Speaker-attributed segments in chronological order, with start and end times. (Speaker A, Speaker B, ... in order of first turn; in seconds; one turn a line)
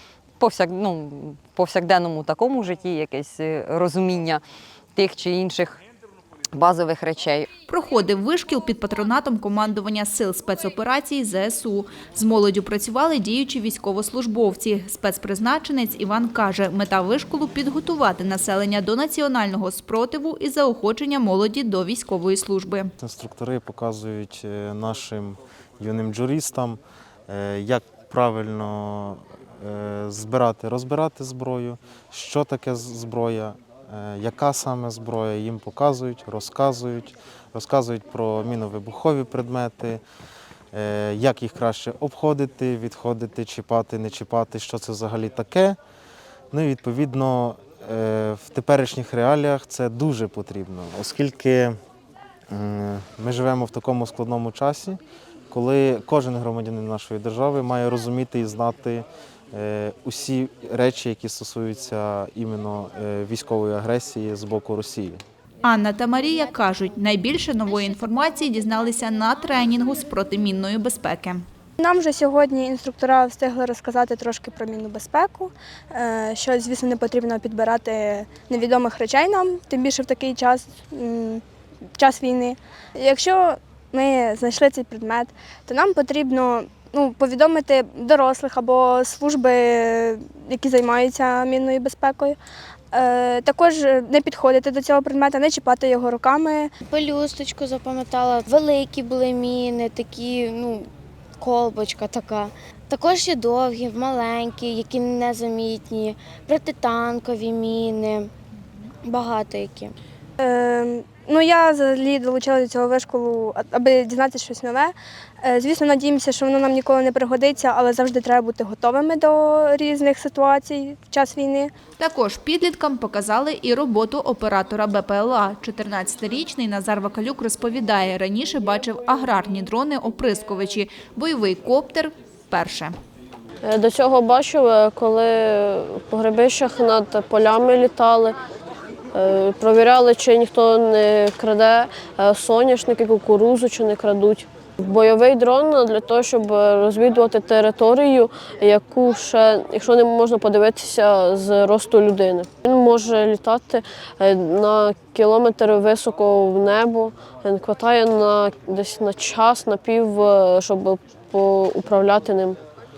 Speaker A: 0.4-4.4
Speaker A: 5.0-5.8
Speaker A: 6.5-7.5
Speaker B: 7.7-22.9
Speaker C: 23.0-40.0
Speaker C: 40.7-45.8
Speaker C: 46.5-51.8
Speaker C: 52.5-65.2
Speaker B: 65.6-71.4
Speaker D: 71.8-81.4
Speaker D: 82.0-92.4
Speaker D: 92.9-96.7
Speaker E: 96.9-100.9
Speaker E: 101.4-108.3
Speaker E: 109.0-109.9
Speaker D: 110.4-121.7
Speaker B: 122.0-132.9
Speaker F: 133.6-138.4
Speaker F: 139.1-162.6